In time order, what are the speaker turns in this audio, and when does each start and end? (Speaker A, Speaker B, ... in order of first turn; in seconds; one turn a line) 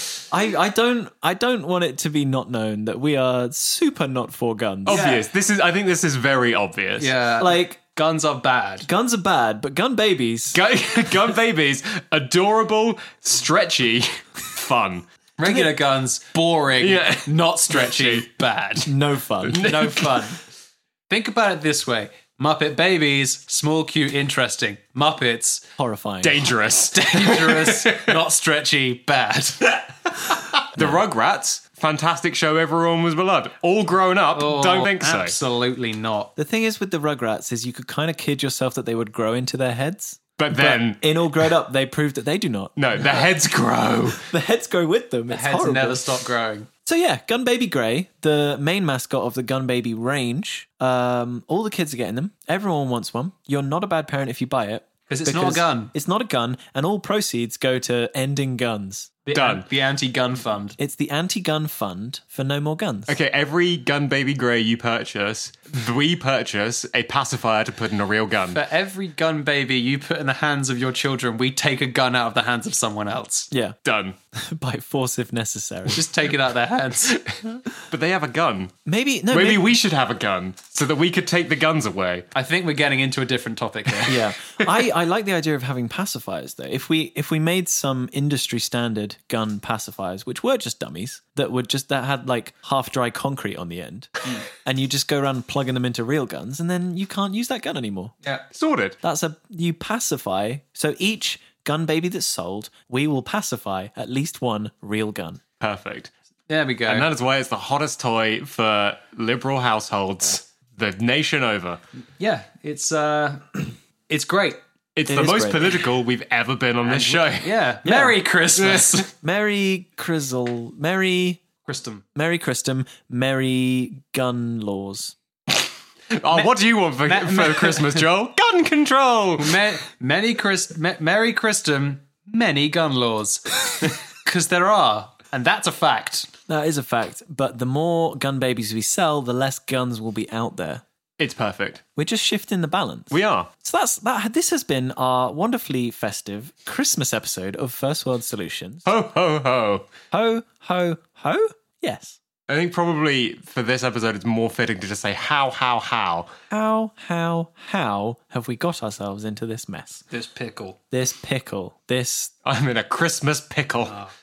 Speaker A: 0.3-5.1
Speaker B: 4.9-7.1
Speaker C: 4.9-5.3
Speaker C: 7.0-8.9
Speaker A: 7.4-7.8
Speaker A: 8.8-10.6
Speaker B: 10.5-15.1
Speaker C: 15.4-18.9
Speaker A: 15.4-15.7
Speaker B: 16.8-18.3
Speaker A: 18.9-19.7
Speaker B: 19.4-20.4
Speaker C: 19.5-20.4
Speaker C: 21.1-25.7
Speaker A: 25.8-26.5
Speaker B: 26.2-28.1
Speaker C: 26.9-29.8
Speaker B: 30.3-35.4
Speaker A: 30.8-31.0
Speaker C: 34.3-36.3
Speaker A: 36.4-43.3
Speaker B: 40.4-41.1
Speaker B: 42.8-44.3
Speaker A: 44.2-46.1
Speaker C: 45.3-46.7
Speaker A: 46.9-59.1
Speaker C: 55.1-55.9
Speaker C: 59.3-60.8
Speaker B: 59.3-59.7
Speaker A: 60.8-63.1
Speaker B: 63.1-68.6
Speaker C: 68.5-73.5
Speaker A: 73.5-73.8
Speaker B: 73.8-74.2
Speaker A: 74.3-76.0
Speaker C: 75.9-77.2
Speaker B: 77.2-78.7
Speaker A: 78.9-79.7
Speaker B: 79.3-82.3
Speaker C: 82.3-84.2
Speaker A: 84.1-98.2
Speaker B: 98.5-99.0
Speaker A: 99.0-105.4
Speaker B: 105.6-106.1
Speaker C: 106.5-107.1
Speaker B: 106.9-111.8
Speaker C: 112.2-114.6
Speaker B: 115.0-117.6
Speaker A: 115.1-115.7
Speaker C: 116.8-119.1
Speaker A: 117.8-118.2
Speaker B: 118.6-119.0
Speaker A: 119.2-121.4
Speaker C: 121.7-122.0
Speaker A: 122.2-125.2
Speaker B: 126.1-129.8
Speaker C: 127.0-128.1
Speaker C: 129.4-136.3
Speaker A: 136.5-140.8
Speaker B: 141.2-141.8
Speaker A: 142.0-148.9
Speaker B: 143.1-143.5
Speaker B: 148.9-149.9
Speaker A: 150.1-152.2
Speaker B: 152.5-156.3
Speaker A: 156.5-160.1
Speaker C: 160.1-160.8
Speaker A: 160.9-162.3
Speaker B: 162.4-164.0